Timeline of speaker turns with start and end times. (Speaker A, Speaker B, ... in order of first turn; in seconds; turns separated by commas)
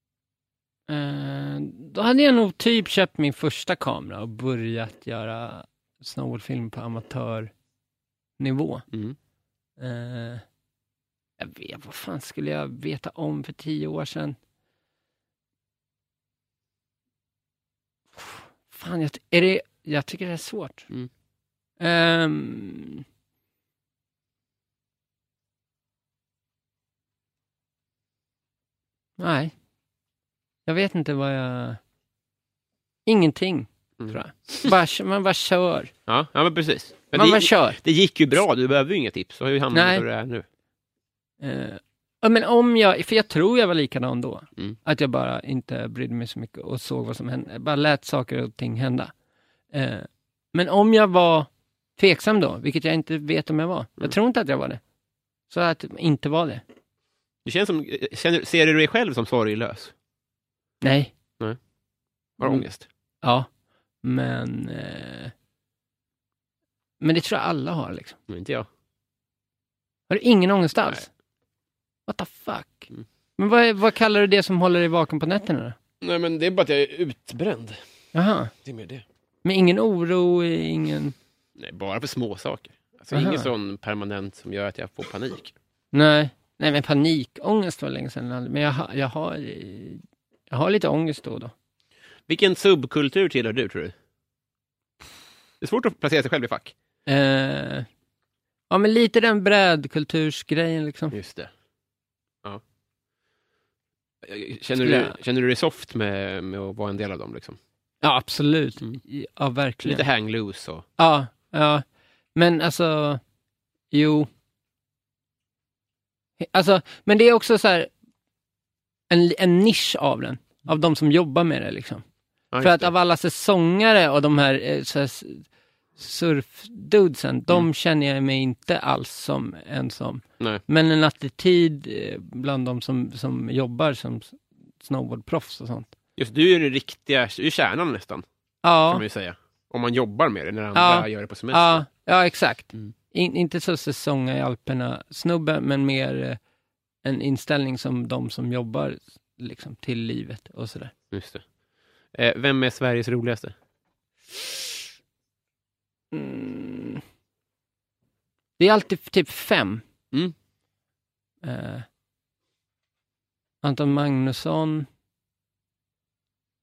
Speaker A: 0.9-7.5, Speaker A: 8.4-8.8, Speaker B: 8.9-9.2, Speaker A: 9.8-10.4, Speaker A: 11.4-14.4, Speaker A: 18.1-20.9, Speaker A: 21.8-23.0, Speaker A: 29.2-29.5, Speaker A: 30.6-31.8, Speaker A: 33.0-35.9, Speaker B: 34.0-34.7, Speaker B: 36.1-40.4, Speaker A: 37.1-37.8, Speaker A: 39.7-40.0, Speaker A: 41.4-49.1, Speaker A: 49.7-54.8, Speaker A: 55.5-56.6, Speaker B: 57.4-59.9, Speaker A: 60.8-61.1, Speaker B: 62.4-62.9, Speaker A: 63.2-63.5, Speaker A: 64.0-65.3, Speaker A: 67.0-68.2, Speaker B: 68.3-68.7, Speaker A: 70.1-71.1, Speaker A: 72.1-75.8, Speaker B: 76.0-77.8, Speaker A: 78.1-78.5, Speaker B: 78.6-79.0, Speaker A: 79.4-81.1, Speaker B: 81.6-85.5, Speaker A: 83.1-83.5, Speaker A: 85.9-91.5, Speaker B: 92.3-93.9, Speaker B: 95.6-96.7, Speaker A: 97.1-97.9, Speaker A: 98.7-101.1, Speaker B: 101.1-101.5, Speaker B: 104.2-107.6, Speaker A: 104.8-105.2, Speaker A: 108.0-110.0, Speaker B: 109.8-110.8, Speaker A: 111.0-111.8, Speaker A: 112.3-113.2, Speaker A: 113.9-114.3, Speaker A: 116.4-117.9, Speaker A: 119.1-122.0, Speaker B: 122.5-122.9, Speaker A: 122.6-125.5, Speaker A: 126.0-135.9, Speaker B: 136.2-138.2, Speaker A: 138.6-139.0, Speaker B: 138.8-141.8, Speaker A: 140.7-146.4, Speaker A: 147.0-150.9, Speaker B: 151.1-151.4, Speaker B: 152.1-153.5, Speaker A: 156.1-157.0, Speaker A: 158.6-159.8, Speaker A: 161.4-161.8, Speaker A: 163.6-164.9